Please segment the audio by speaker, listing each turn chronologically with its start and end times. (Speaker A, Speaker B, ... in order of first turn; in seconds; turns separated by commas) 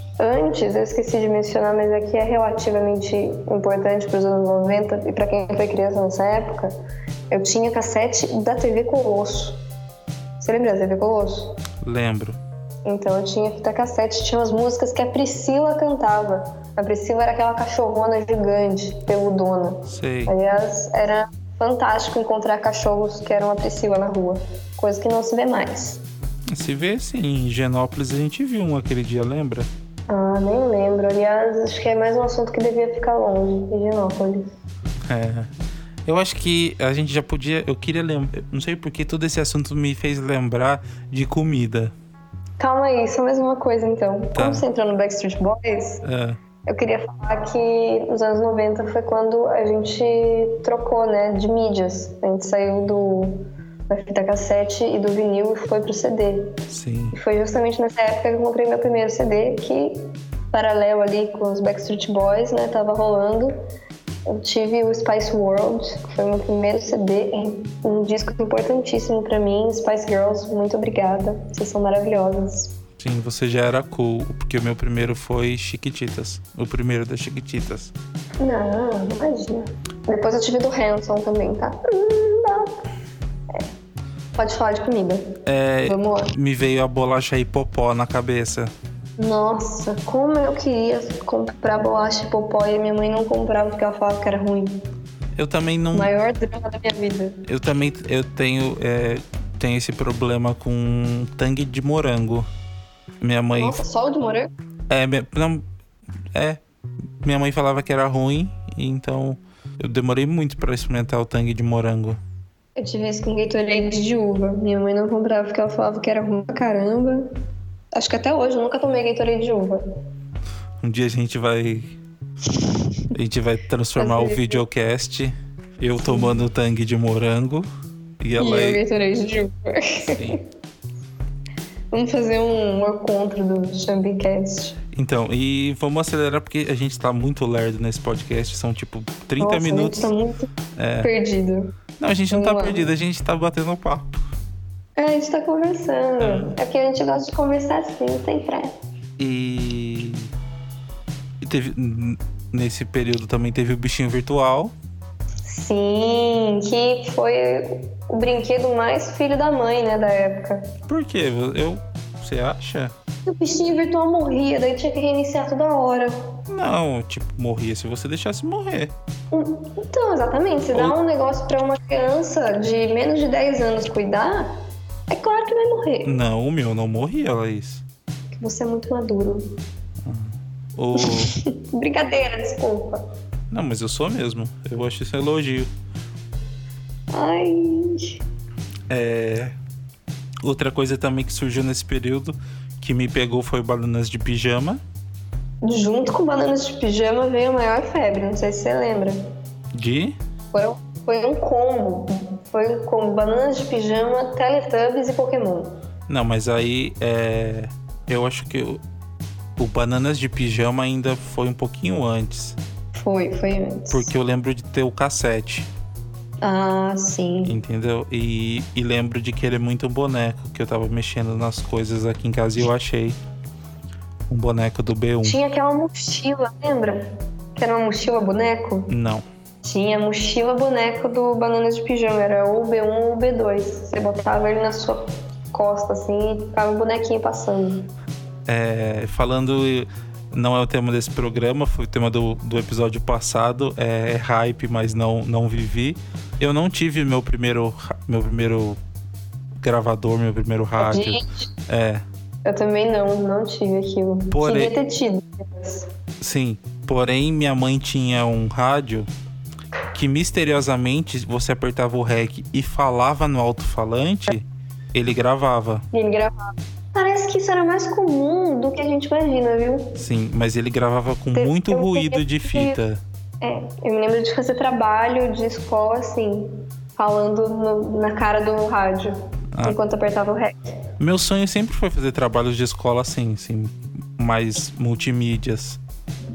Speaker A: 0.2-6.8, Speaker A: 7.3-9.6, Speaker A: 10.4-11.6, Speaker B: 11.8-12.4, Speaker A: 12.8-26.0, Speaker B: 19.9-20.3, Speaker B: 26.5-29.7, Speaker A: 30.1-34.5, Speaker B: 35.1-35.5, Speaker B: 36.1-41.9, Speaker A: 42.6-46.0, Speaker B: 44.4-44.6, Speaker B: 46.0-46.4, Speaker A: 46.6-56.6, Speaker B: 56.7-57.2, Speaker A: 57.1-63.5, Speaker A: 64.3-72.8, Speaker B: 73.0-77.9, Speaker A: 78.4-82.8, Speaker A: 84.4-86.3, Speaker B: 85.5-88.7, Speaker A: 89.2-94.8, Speaker B: 95.4-96.1, Speaker A: 95.9-97.4, Speaker B: 97.5-102.5, Speaker B: 103.2-103.8, Speaker A: 103.6-104.5, Speaker B: 104.9-105.7, Speaker B: 106.3-106.6, Speaker B: 107.2-112.2, Speaker A: 112.8-117.3, Speaker A: 117.9-119.8, Speaker B: 120.8-122.0, Speaker A: 122.5-123.1, Speaker B: 123.1-127.7, Speaker A: 124.0-124.6, Speaker A: 126.0-126.4, Speaker B: 128.2-128.8, Speaker A: 128.4-130.4, Speaker B: 130.1-130.4, Speaker A: 131.9-134.8, Speaker B: 134.9-140.1, Speaker A: 139.4-140.5, Speaker B: 140.8-141.1, Speaker A: 141.0-141.7, Speaker B: 142.0-144.2, Speaker A: 142.3-142.9, Speaker A: 145.0-148.8, Speaker B: 146.2-146.6, Speaker B: 149.2-150.3, Speaker B: 151.4-154.7, Speaker A: 155.4-160.7, Speaker B: 160.9-162.9, Speaker A: 163.3-166.3, Speaker B: 166.5-168.9, Speaker A: 169.3-176.1, Speaker B: 176.1-177.8, Speaker A: 178.3-179.6, Speaker B: 180.0-181.3, Speaker A: 181.0-183.1, Speaker B: 183.5-185.7, Speaker A: 187.1-188.2, Speaker B: 188.9-189.6, Speaker B: 190.4-194.8, Speaker A: 195.6-199.2, Speaker B: 199.7-200.2, Speaker A: 200.5-205.8, Speaker B: 206.1-208.8, Speaker B: 209.6-212.6, Speaker A: 212.9-214.1, Speaker B: 213.9-215.7, Speaker A: 216.4-217.6, Speaker B: 217.4-223.2, Speaker B: 224.3-225.4, Speaker A: 225.2-228.9, Speaker B: 228.9-229.2, Speaker A: 229.6-237.9, Speaker B: 238.5-248.8, Speaker B: 249.6-252.0, Speaker A: 250.8-251.5, Speaker A: 252.4-255.9, Speaker B: 254.3-254.7, Speaker B: 256.2-259.1, Speaker B: 259.9-265.9, Speaker A: 265.9-269.9, Speaker B: 270.0-273.0, Speaker A: 271.4-272.8, Speaker A: 273.4-280.6, Speaker B: 281.0-285.8